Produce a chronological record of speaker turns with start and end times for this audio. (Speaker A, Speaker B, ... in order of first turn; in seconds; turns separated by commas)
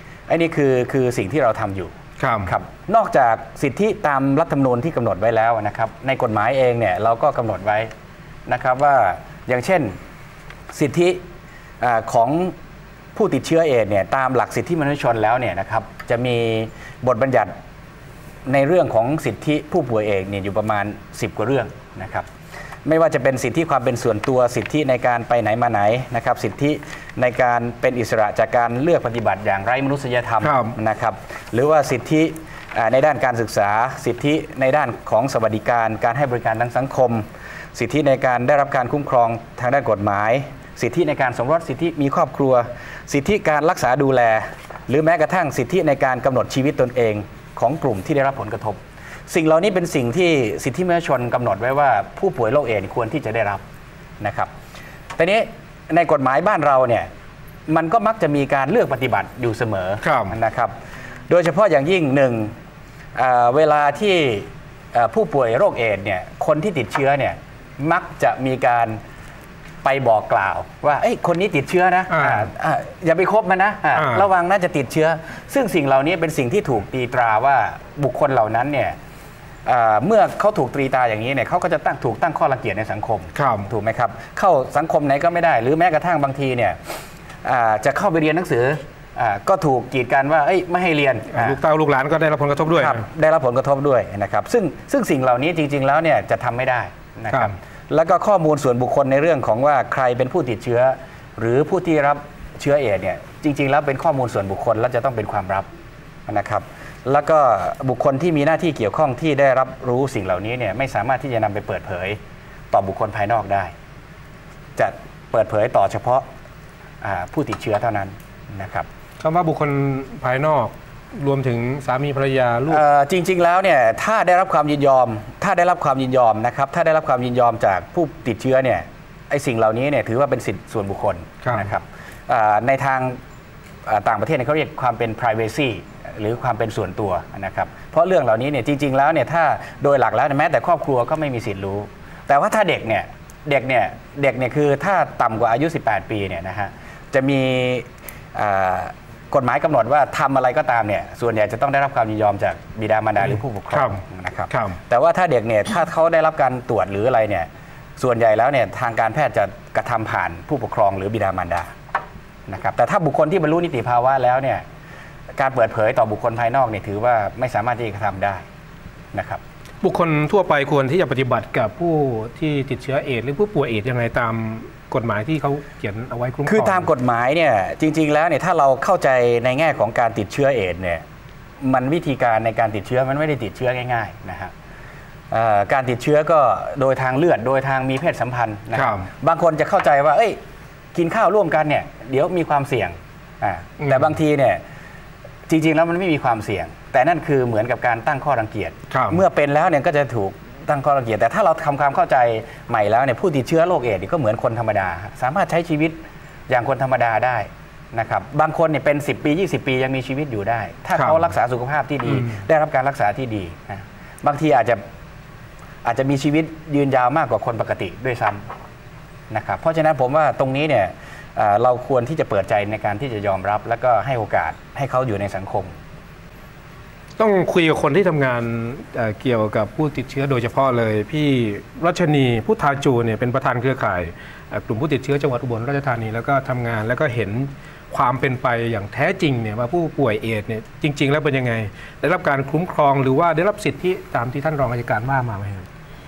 Speaker A: 0.3-7.9, Speaker B: 2.2-2.5, Speaker A: 8.5-10.0, Speaker A: 10.7-11.2, Speaker A: 11.8-12.5, Speaker A: 13.1-17.5, Speaker A: 18.4-22.3, Speaker A: 22.8-53.6, Speaker B: 30.4-30.7, Speaker A: 54.2-54.5, Speaker A: 55.2-57.1, Speaker A: 57.7-60.7, Speaker B: 60.0-60.3, Speaker A: 61.3-62.5, Speaker A: 63.1-69.0, Speaker A: 69.8-79.0, Speaker B: 72.1-72.5, Speaker B: 73.9-74.2, Speaker A: 79.6-91.6, Speaker B: 83.3-83.7, Speaker B: 91.3-93.0, Speaker A: 92.7-105.7, Speaker A: 106.3-112.2, Speaker A: 112.7-113.7, Speaker A: 114.8-116.3, Speaker A: 117.0-118.9, Speaker B: 119.2-122.8, Speaker A: 122.7-133.2, Speaker A: 133.8-161.7, Speaker B: 153.7-154.8, Speaker A: 162.5-164.6, Speaker A: 165.3-168.4, Speaker A: 169.1-169.4, Speaker B: 169.8-176.8, Speaker A: 176.5-181.0, Speaker A: 181.6-184.5, Speaker A: 185.3-190.4, Speaker B: 188.7-189.1, Speaker A: 190.9-194.6, Speaker B: 193.8-194.1, Speaker A: 195.5-206.0, Speaker B: 198.9-199.2, Speaker A: 206.5-214.8, Speaker A: 215.8-218.5, Speaker A: 219.3-225.8, Speaker B: 227.2-245.7